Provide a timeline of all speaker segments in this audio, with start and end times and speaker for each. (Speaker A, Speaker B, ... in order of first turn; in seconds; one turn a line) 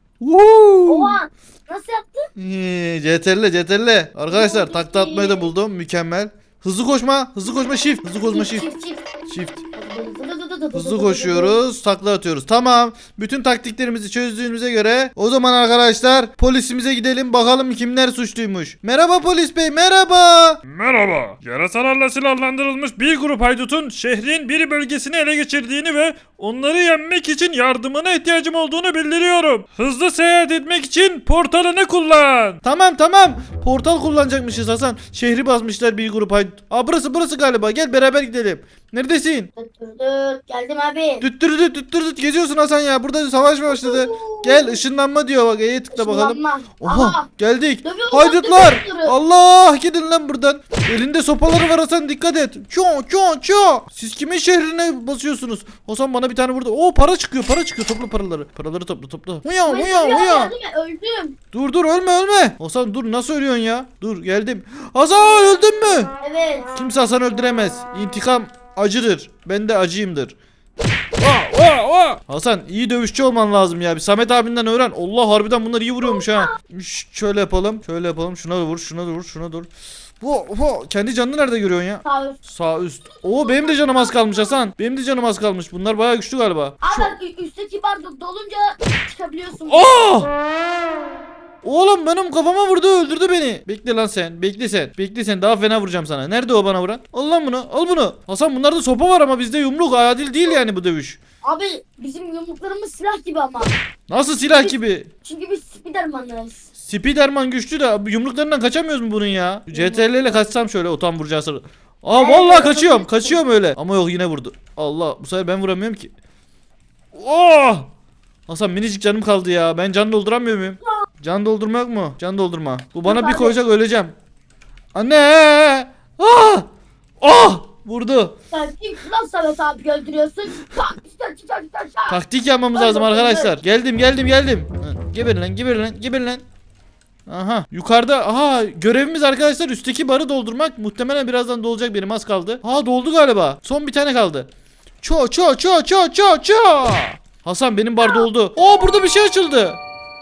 Speaker A: 0.2-1.2
Speaker B: 0.9-2.3
Speaker A: 2.4-8.7
Speaker B: 4.3-5.5
Speaker B: 8.3-9.1
Speaker A: 9.3-9.6
Speaker B: 9.8-11.6
Speaker A: 10.7-20.6
Speaker C: 20.6-32.6
Speaker A: 32.6-39.5
Speaker B: 39.6-41.3
Speaker A: 41.2-60.5
Speaker B: 43.7-44.8
Speaker B: 45.9-47.3
Speaker B: 47.8-49.1
Speaker B: 59.7-61.4
Speaker A: 61.5-66.1
Speaker B: 66.2-66.7
Speaker A: 66.8-70.3
Speaker C: 71.2-72.2
Speaker A: 72.3-79.7
Speaker B: 76.0-76.5
Speaker A: 80.2-87.1
Speaker B: 82.0-82.4
Speaker B: 83.2-84.6
Speaker B: 86.8-89.9
Speaker A: 89.7-90.3
Speaker A: 91.6-101.2
Speaker B: 101.4-103.7
Speaker A: 104.1-105.1
Speaker B: 105.2-106.7
Speaker A: 106.8-116.1
Speaker B: 109.7-110.0
Speaker B: 112.1-113.4
Speaker A: 117.1-117.9
Speaker A: 118.5-124.1
Speaker B: 123.1-123.6
Speaker A: 125.0-126.7
Speaker A: 127.2-128.3
Speaker B: 128.5-132.2
Speaker A: 132.1-136.4
Speaker B: 132.7-133.5
Speaker A: 137.3-144.5
Speaker A: 145.0-149.8